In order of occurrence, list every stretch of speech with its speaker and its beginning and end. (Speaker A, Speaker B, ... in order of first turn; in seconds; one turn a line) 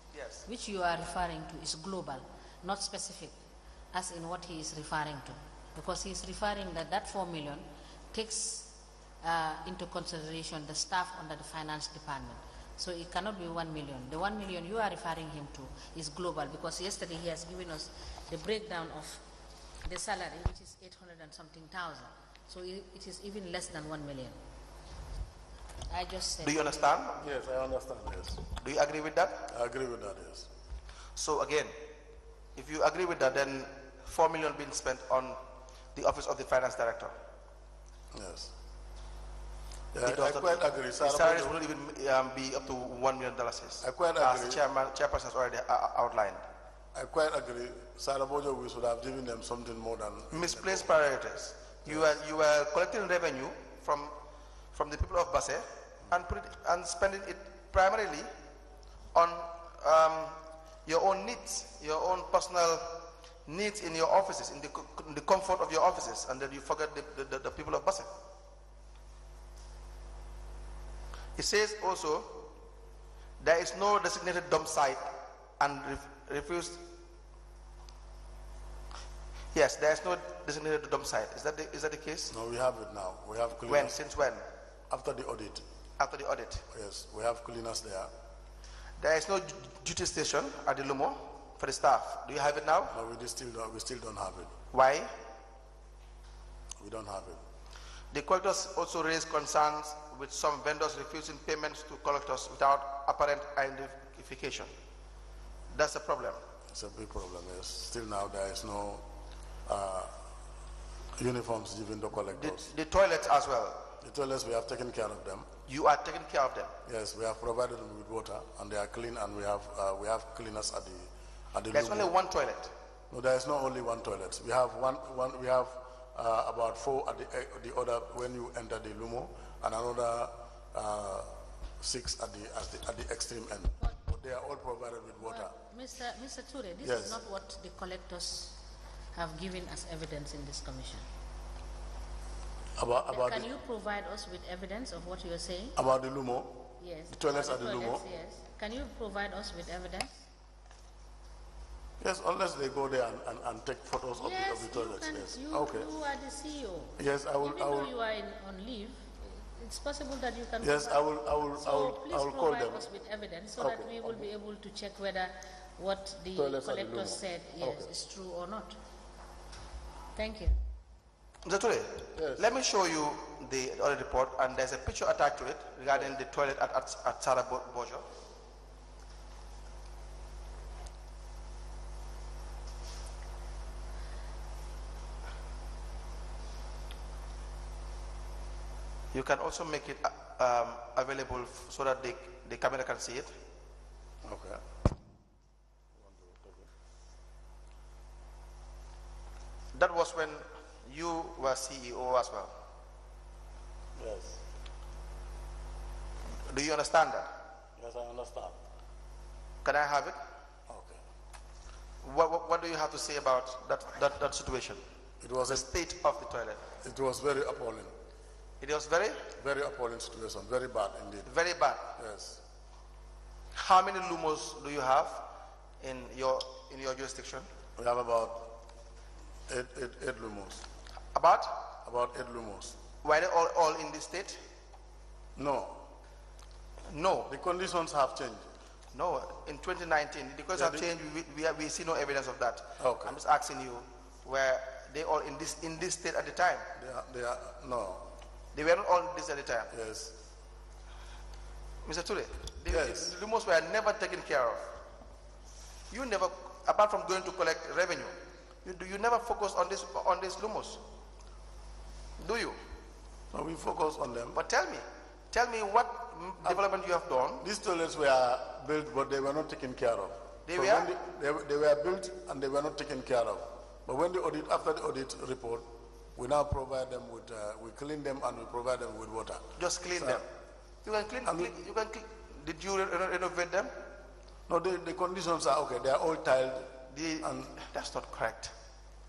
Speaker A: 0.1-0.5
Speaker B: 0.5-3.4
Speaker B: 3.9-19.2
Speaker B: 19.8-24.4
Speaker B: 25.9-26.8
Speaker A: 26.4-27.2
Speaker C: 27.2-28.5
Speaker A: 28.6-29.4
Speaker C: 29.5-30.5
Speaker A: 31.2-31.8
Speaker A: 32.5-35.4
Speaker A: 36.0-37.1
Speaker C: 38.1-38.5
Speaker C: 39.9-41.5
Speaker A: 40.0-46.4
Speaker C: 43.8-44.6
Speaker C: 47.0-50.9
Speaker A: 50.3-54.1
Speaker C: 51.8-52.1
Speaker A: 54.7-58.3
Speaker A: 59.1-68.1
Speaker A: 71.4-72.5
Speaker A: 73.4-75.1
Speaker A: 75.6-76.8
Speaker A: 79.5-82.3
Speaker C: 82.3-84.0
Speaker A: 83.7-84.5
Speaker C: 84.9-85.6
Speaker A: 86.0-86.6
Speaker C: 86.7-88.1
Speaker A: 89.0-93.0
Speaker C: 92.9-94.5
Speaker A: 94.7-95.1
Speaker C: 96.8-97.4
Speaker A: 98.1-104.7
Speaker A: 105.7-106.4
Speaker C: 106.7-109.0
Speaker C: 109.7-110.1
Speaker C: 111.2-112.7
Speaker A: 112.3-113.9
Speaker C: 114.0-115.5
Speaker A: 115.7-116.7
Speaker C: 116.9-122.1
Speaker A: 121.7-122.7
Speaker C: 123.1-135.5
Speaker B: 135.2-138.6
Speaker C: 136.8-137.2
Speaker B: 139.1-141.0
Speaker C: 142.8-143.5
Speaker B: 143.1-145.8
Speaker C: 145.8-148.0
Speaker B: 146.8-150.2
Speaker C: 152.0-155.9
Speaker B: 154.2-168.8
Speaker C: 157.0-157.9
Speaker C: 160.6-162.8
Speaker C: 163.6-164.3
Speaker C: 166.3-167.9
Speaker B: 170.1-170.6
Speaker A: 171.4-178.0
Speaker C: 172.1-172.5
Speaker A: 189.1-193.3
Speaker C: 194.2-194.6
Speaker C: 195.9-196.7
Speaker A: 199.7-202.5
Speaker C: 204.0-204.4
Speaker A: 206.5-207.3
Speaker C: 207.8-208.6
Speaker A: 209.6-210.2
Speaker C: 210.7-211.0
Speaker A: 212.0-214.8
Speaker C: 215.2-215.7
Speaker A: 215.4-216.7
Speaker C: 216.8-217.9
Speaker A: 218.6-219.2
Speaker C: 219.3-221.3
Speaker A: 221.2-221.9
Speaker C: 221.9-222.4
Speaker A: 223.5-225.2
Speaker A: 225.8-227.5
Speaker C: 227.8-228.5
Speaker C: 229.5-230.6
Speaker A: 231.1-231.5
Speaker C: 231.8-232.8
Speaker A: 233.0-234.4
Speaker C: 235.3-235.8
Speaker A: 236.9-237.3
Speaker C: 237.3-238.5
Speaker A: 238.9-246.7
Speaker C: 240.5-240.9
Speaker C: 242.8-243.1
Speaker C: 246.8-248.0
Speaker A: 248.5-249.7
Speaker C: 249.7-250.2
Speaker A: 251.8-254.7
Speaker C: 252.7-253.1
Speaker A: 255.9-260.8
Speaker A: 262.2-262.6
Speaker C: 263.3-264.4
Speaker A: 264.3-267.4
Speaker C: 267.4-280.2
Speaker A: 270.5-270.9
Speaker A: 279.6-280.2
Speaker A: 280.9-283.7
Speaker C: 281.2-281.5
Speaker C: 284.5-287.6
Speaker A: 286.9-288.5